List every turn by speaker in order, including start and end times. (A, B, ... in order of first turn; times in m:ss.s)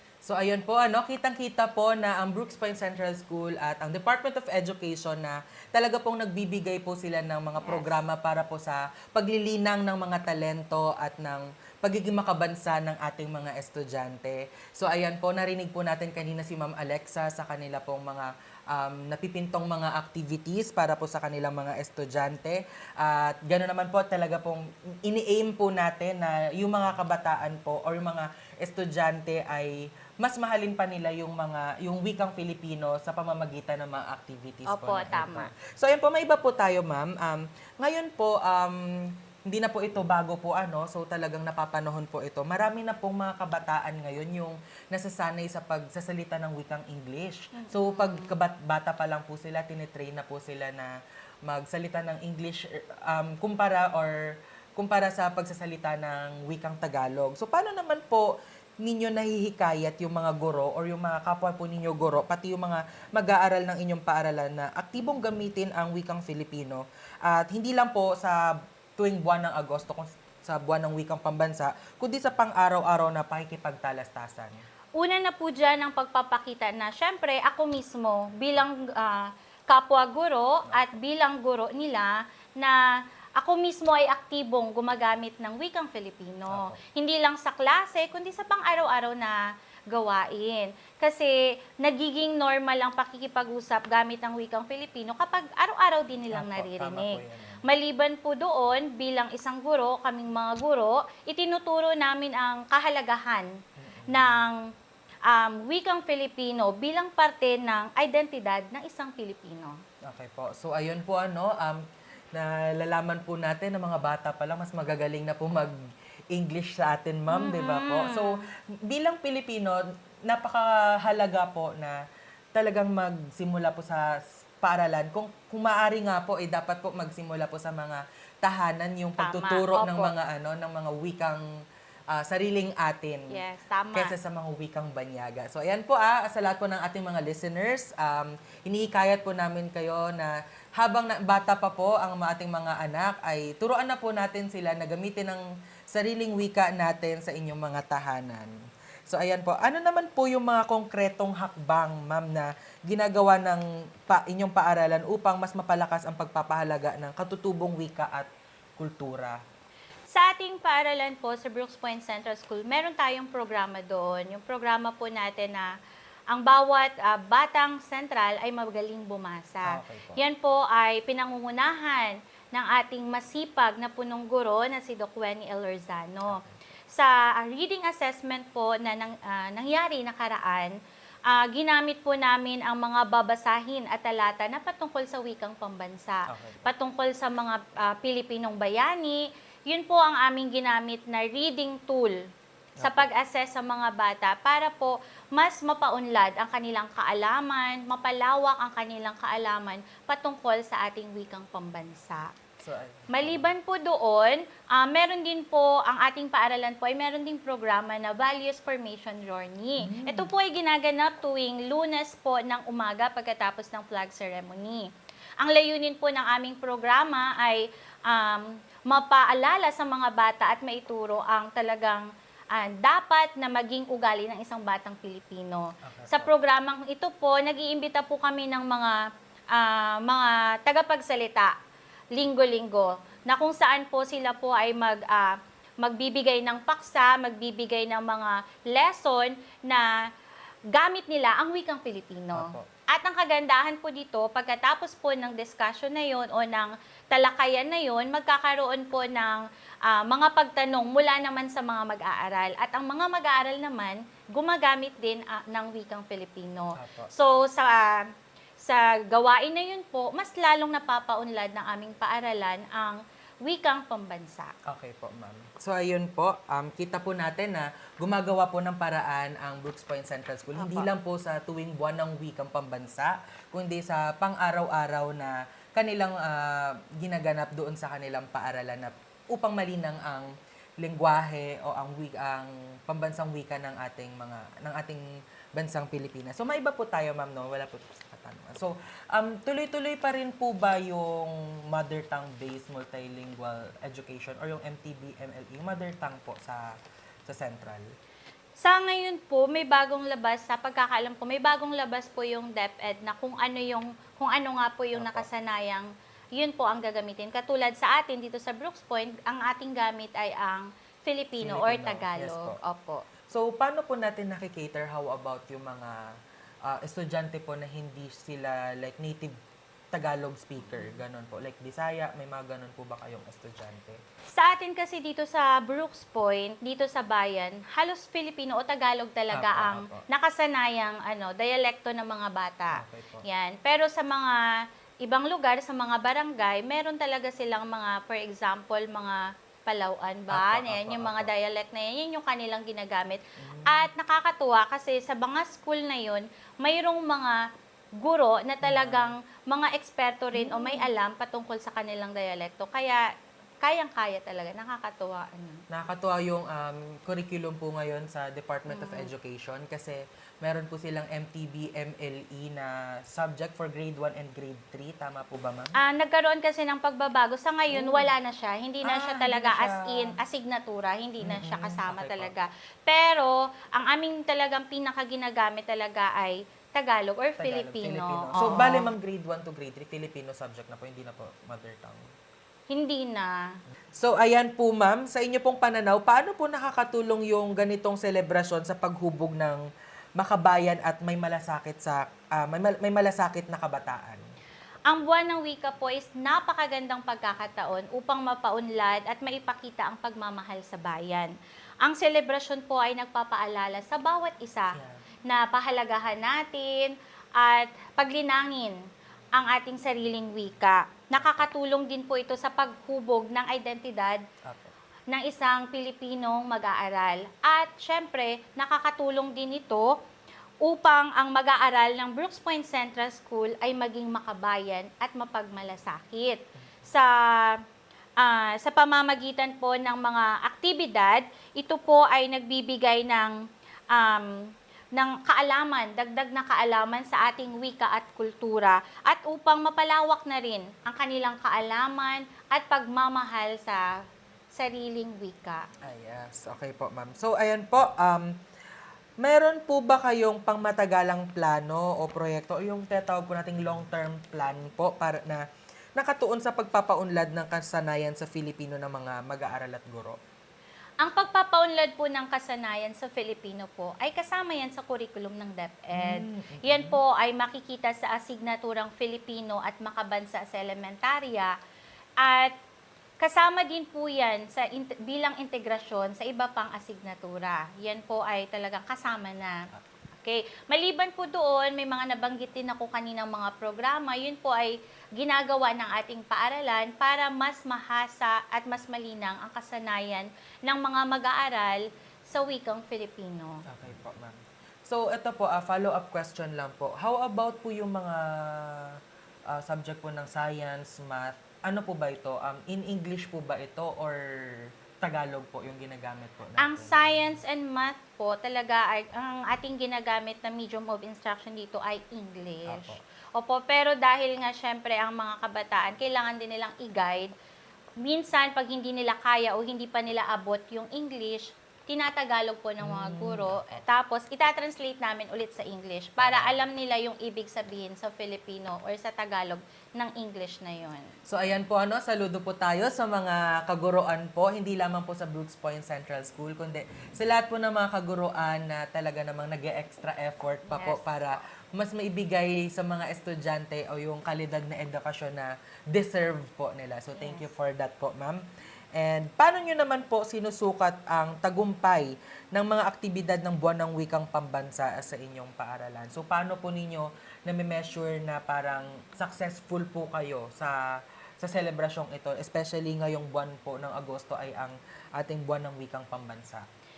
0:00.2-0:50.9 A
0:07.6-0:08.0 B
0:34.7-0:35.5 B
0:47.6-0:48.3 B
0:51.5-1:14.6 A
1:15.0-1:22.8 B
1:23.4-1:29.4 B
1:26.5-1:26.8 A
1:29.9-1:43.5 B
1:36.3-1:37.6 A
1:43.8-1:44.4 A
1:44.1-1:44.6 B
1:45.3-1:49.8 B
1:50.1-1:51.8 A
1:52.3-1:55.8 A
1:56.3-2:02.0 A
1:57.3-1:58.4 B
2:02.6-2:11.4 A
2:09.2-2:10.1 B
2:12.1-2:13.4 A
2:13.3-2:14.1 B
2:13.9-2:28.6 A
2:29.1-2:39.4 A
2:40.1-2:45.7 B
2:46.3-3:00.7 B
2:49.7-2:50.2 A
2:56.3-2:56.6 A
3:01.3-3:12.2 B
3:06.3-3:06.7 A
3:12.8-3:13.1 A
3:12.8-3:22.3 B
3:22.6-3:23.5 A
3:23.1-3:34.9 B
3:29.8-3:30.3 A
3:35.4-3:49.0 B
3:45.8-3:46.3 A
3:49.5-3:51.6 B
3:52.1-3:59.9 B
4:00.7-4:18.1 B
4:02.4-4:02.7 A
4:16.8-4:17.1 A
4:18.6-4:24.5 B
4:24.7-4:45.0 A
4:30.6-4:30.9 B
4:45.6-4:56.6 A
4:57.3-4:57.9 A
4:58.6-5:13.0 B
5:04.9-5:05.3 A
5:11.4-5:12.6 A
5:13.3-5:16.0 A
5:16.7-5:19.4 A
5:19.9-5:24.0 A
5:24.3-5:34.4 B
5:29.3-5:30.0 A
5:32.7-5:33.3 A
5:35.0-5:47.4 B
5:40.3-5:41.3 A
5:43.4-5:43.9 A
5:48.0-5:53.1 B
5:48.6-5:49.2 A
5:50.3-5:50.9 A
5:53.6-5:55.6 B
5:55.7-6:05.8 A
5:58.7-5:59.1 B
6:05.8-6:18.9 B
6:07.7-6:08.1 A
6:08.8-6:10.2 A
6:11.2-6:12.3 A
6:17.4-6:22.1 A
6:22.7-6:23.5 B
6:24.0-6:29.6 A
6:30.2-6:34.2 A
6:34.9-6:41.3 B
6:41.8-6:44.8 B
6:44.8-6:45.0 A
6:45.3-6:48.8 B
6:49.3-6:54.2 B
6:51.2-6:51.5 A
6:54.4-6:54.7 A
6:55.1-7:00.0 B
7:00.6-7:07.6 B
7:08.2-7:13.4 B
7:13.9-7:14.4 B
7:14.9-7:23.9 B
7:24.5-7:25.7 B
7:25.8-7:28.4 A
7:29.2-7:35.4 A
7:36.0-7:40.2 A
7:41.0-7:51.5 B
7:45.9-7:47.0 A
7:52.2-7:52.5 B
7:53.2-7:59.6 B
8:00.1-8:13.6 B
8:13.7-8:19.0 A
8:19.5-8:27.1 A
8:26.6-8:37.3 B
8:32.7-8:33.0 A
8:38.0-8:51.1 B
8:42.8-8:43.8 A
8:46.2-8:46.6 A
8:51.3-9:08.4 A
9:00.7-9:01.2 B
9:07.2-9:07.5 B
9:09.0-9:26.7 A